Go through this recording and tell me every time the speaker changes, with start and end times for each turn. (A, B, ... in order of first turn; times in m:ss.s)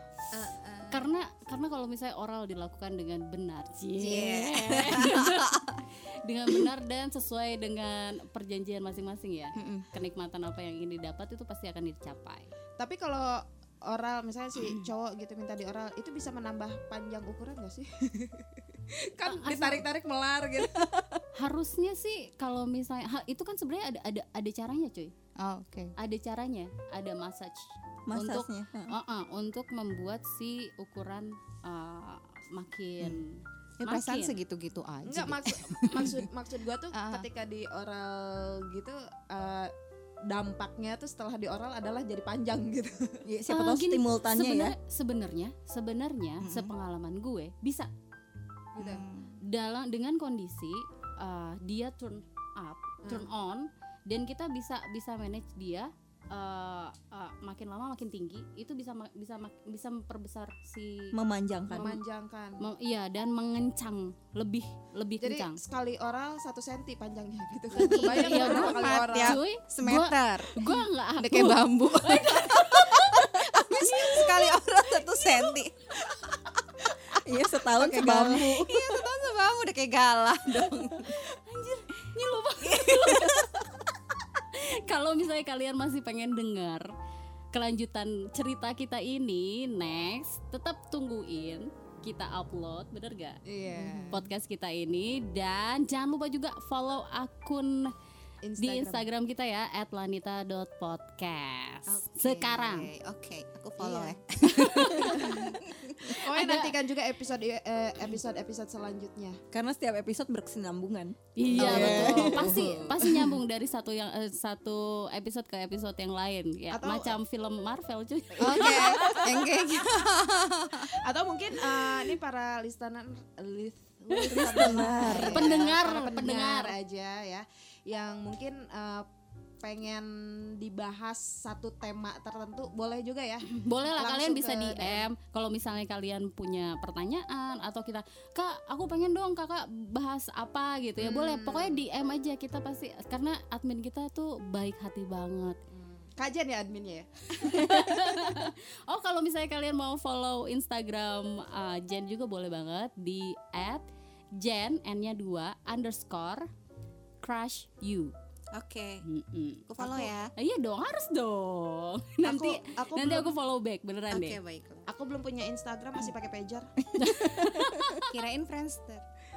0:00.3-0:01.1 A
0:00.9-0:12.5 B
0:04.0-0:05.7 A
0:09.6-0:09.9 A
0:12.8-0:20.9 C
0:19.2-0:19.9 B
0:20.6-0:21.2 D
0:21.3-0:25.1 B
0:25.4-0:25.9 A
0:26.0-0:34.4 B
0:28.1-0:29.0 D
0:33.8-0:36.2 A
0:35.0-0:39.7 C
0:36.9-0:37.2 A
0:40.3-0:43.2 C
0:43.2-0:44.7 D
0:43.5-0:47.9 B
0:46.4-0:46.7 A
0:48.8-0:49.0 C
0:48.8-0:49.3 A
0:49.4-1:01.2 B
1:01.1-1:01.9 D
1:01.7-1:02.6 C
1:01.7-1:02.0 B
1:02.6-1:05.6 B
1:05.2-1:09.4 C
1:07.7-1:15.7 A
1:07.8-1:14.6 B
1:17.1-1:19.0 D
1:17.7-1:21.1 A
1:21.0-1:23.5 B
1:23.0-1:23.3 A
1:24.5-1:26.9 B
1:27.5-1:33.4 B
1:33.5-1:34.2 C
1:33.6-1:34.2 A
1:34.1-1:37.9 B
1:38.4-1:39.0 C
1:38.6-1:42.9 B
1:41.9-1:46.1 A
1:43.8-1:45.4 C
1:44.5-1:46.7 B
1:46.1-1:49.4 C
1:49.5-1:53.3 D
1:51.4-1:59.6 B
1:51.5-1:52.5 C
1:51.5-1:52.7 A
1:56.7-1:57.2 C
1:58.4-1:59.2 C
1:58.4-2:00.9 A
2:00.9-2:09.1 C
2:04.3-2:05.5 D
2:04.5-2:06.7 B
2:05.0-2:05.5 A
2:09.6-2:15.1 C
2:13.5-2:25.6 B
2:21.0-2:21.8 C
2:25.7-2:28.5 C
2:27.4-2:36.5 B
2:37.2-2:38.1 B
2:38.5-2:39.0 A
2:39.0-2:44.4 B
2:39.7-2:40.3 A
2:42.2-2:43.3 C
2:44.1-2:44.9 A
2:44.9-2:46.7 C
2:46.9-2:48.0 D
2:47.0-2:48.0 B
2:48.1-2:49.0 A